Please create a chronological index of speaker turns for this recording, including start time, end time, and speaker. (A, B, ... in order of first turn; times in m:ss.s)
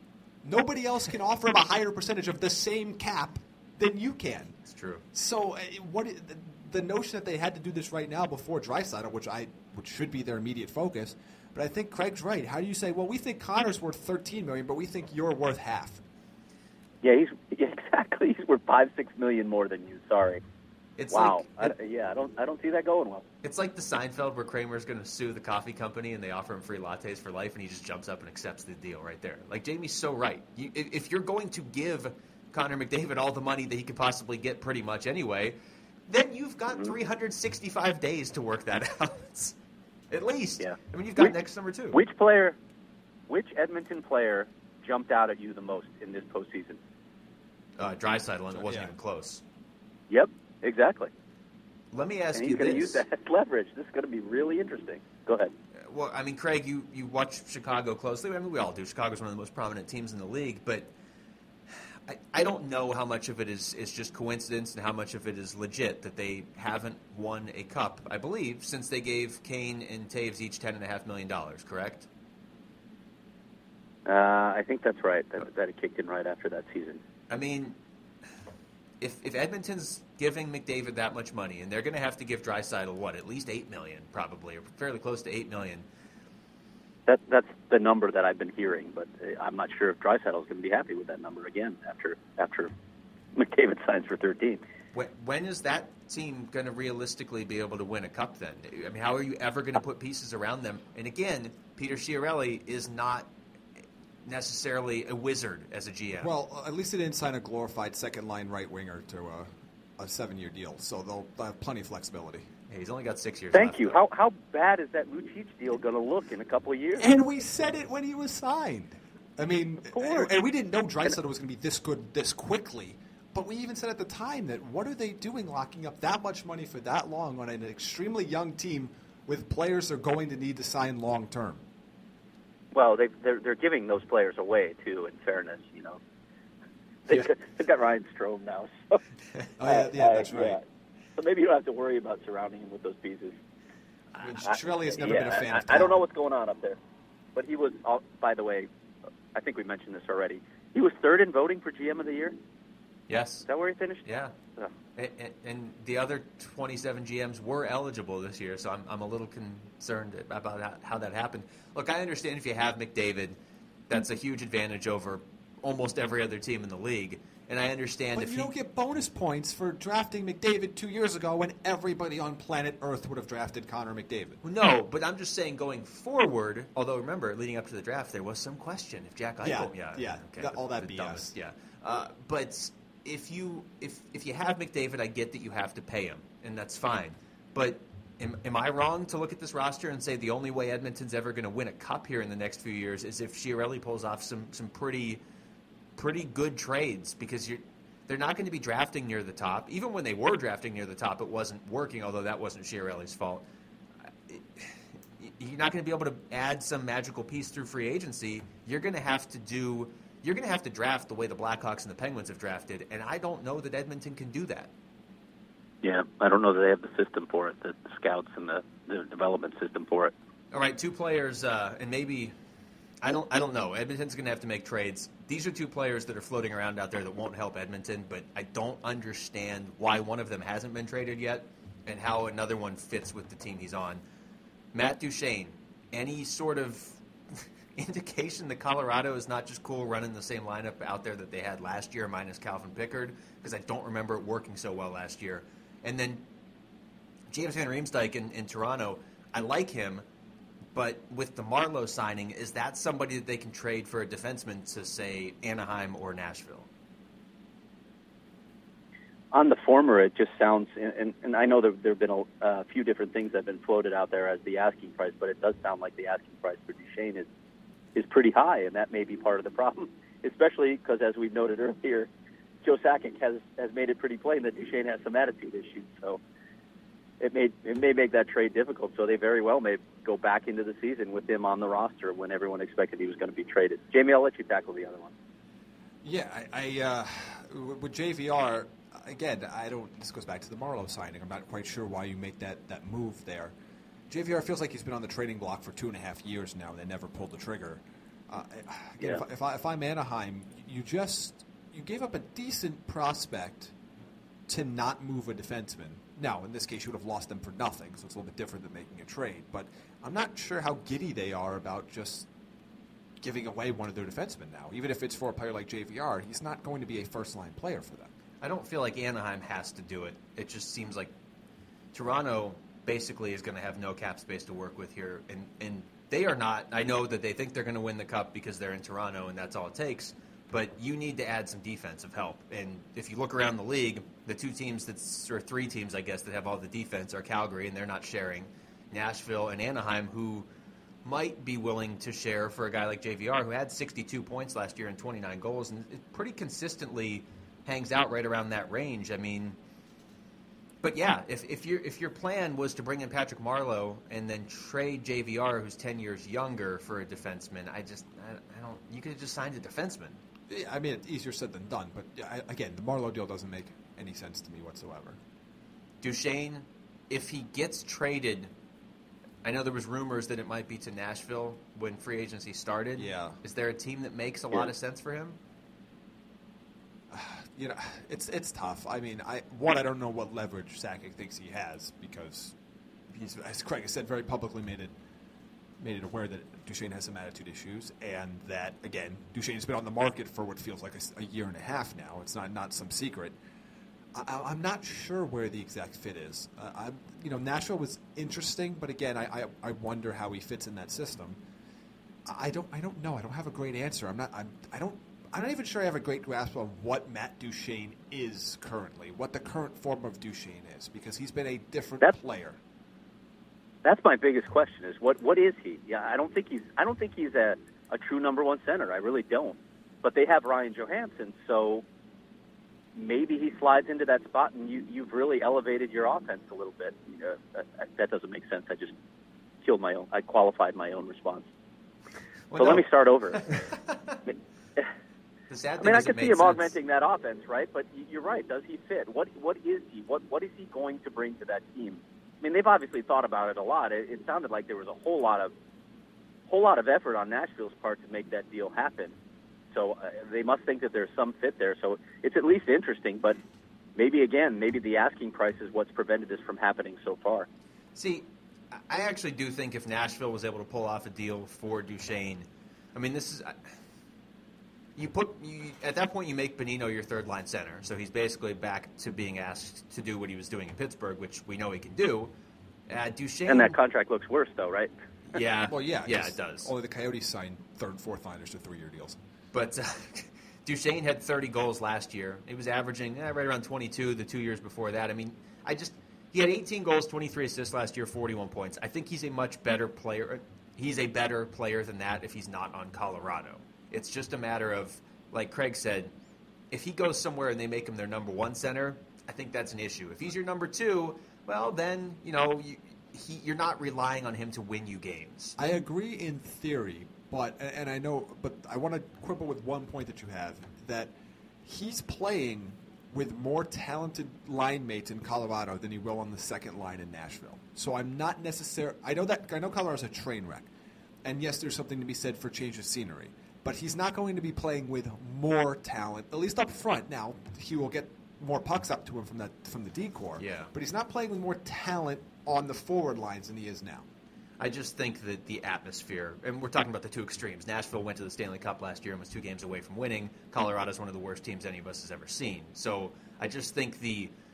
0:00.4-0:04.5 A
0:04.7-0:05.0 B
0:05.1-0:16.0 A
0:17.0-0:20.4 C
0:21.0-0:21.7 B
0:21.1-0:23.2 C
0:23.4-0:35.6 B
0:36.1-0:39.5 B
0:40.1-0:42.0 B
0:40.6-0:41.3 C
0:41.9-0:42.6 C
0:43.3-0:46.8 C
0:47.8-0:49.4 B
0:48.5-0:48.9 A
0:50.1-0:51.1 C
0:51.9-0:53.0 B
0:52.3-0:55.5 C
0:55.8-1:00.9 B
1:01.7-1:12.1 B
1:14.1-1:17.0 C
1:17.3-1:17.8 B
1:19.0-1:25.8 B
1:27.1-1:32.7 C
1:33.3-1:34.6 C
1:34.9-1:43.3 B
1:44.2-1:46.3 B
1:46.2-1:52.5 A
1:52.7-1:54.0 B
1:53.5-1:57.1 C
1:57.0-2:11.6 A
1:59.8-2:00.3 C
2:12.7-2:16.0 C
2:17.1-2:19.0 C
2:19.6-2:20.6 A
2:19.6-2:20.6 C
2:21.2-2:23.4 C
2:24.2-2:26.0 A
2:24.5-2:26.8 C
2:27.4-2:28.7 C
2:29.3-2:32.3 C
2:33.1-2:33.4 B
2:33.5-2:34.0 C
2:34.0-2:34.3 B
2:35.0-2:43.4 B
2:43.9-2:48.5 B
2:48.1-2:54.4 A
2:54.4-3:15.2 B
2:59.4-3:01.3 A
3:16.0-3:23.4 B
3:24.3-3:34.7 B
3:35.8-3:40.1 C
3:40.5-3:42.3 B
3:43.0-3:54.0 B
3:54.7-4:06.2 B
4:07.3-4:10.0 B
4:10.7-4:16.7 B
4:19.3-4:27.3 C
4:27.9-4:32.1 C
4:32.6-4:36.2 C
4:37.2-4:45.1 C
4:46.0-4:53.5 A
4:54.1-5:03.7 A
5:04.5-5:12.3 A
5:13.2-5:18.1 A
5:18.4-5:21.1 B
5:21.9-5:40.5 B
5:41.0-5:49.6 B
5:50.8-6:00.2 B
6:00.5-6:05.2 A
6:06.0-6:08.5 B
6:09.4-6:15.4 B
6:12.9-6:13.4 A
6:17.1-6:22.5 A
6:23.1-6:24.9 A
6:25.8-6:33.3 A
6:34.1-6:41.4 A
6:42.2-6:52.6 A
6:53.8-7:01.8 C
7:03.0-7:08.9 C
7:09.6-7:11.5 C
7:12.5-7:14.2 B
7:12.6-7:13.5 C
7:14.2-7:14.9 C
7:15.5-7:16.8 B
7:15.8-7:25.5 C
7:26.5-7:29.1 C
7:29.7-7:33.4 C
7:34.0-7:37.5 C
7:37.9-7:43.7 B
7:45.0-7:52.3 B
7:52.9-7:53.8 B
7:53.5-7:54.9 C
7:55.3-7:56.7 B
7:55.6-7:59.2 A
7:59.5-8:16.1 B
8:16.7-8:25.6 B
8:25.6-8:31.1 A
8:31.6-8:40.7 A
8:41.2-8:54.0 A
8:50.4-8:50.7 B
8:54.6-9:04.3 B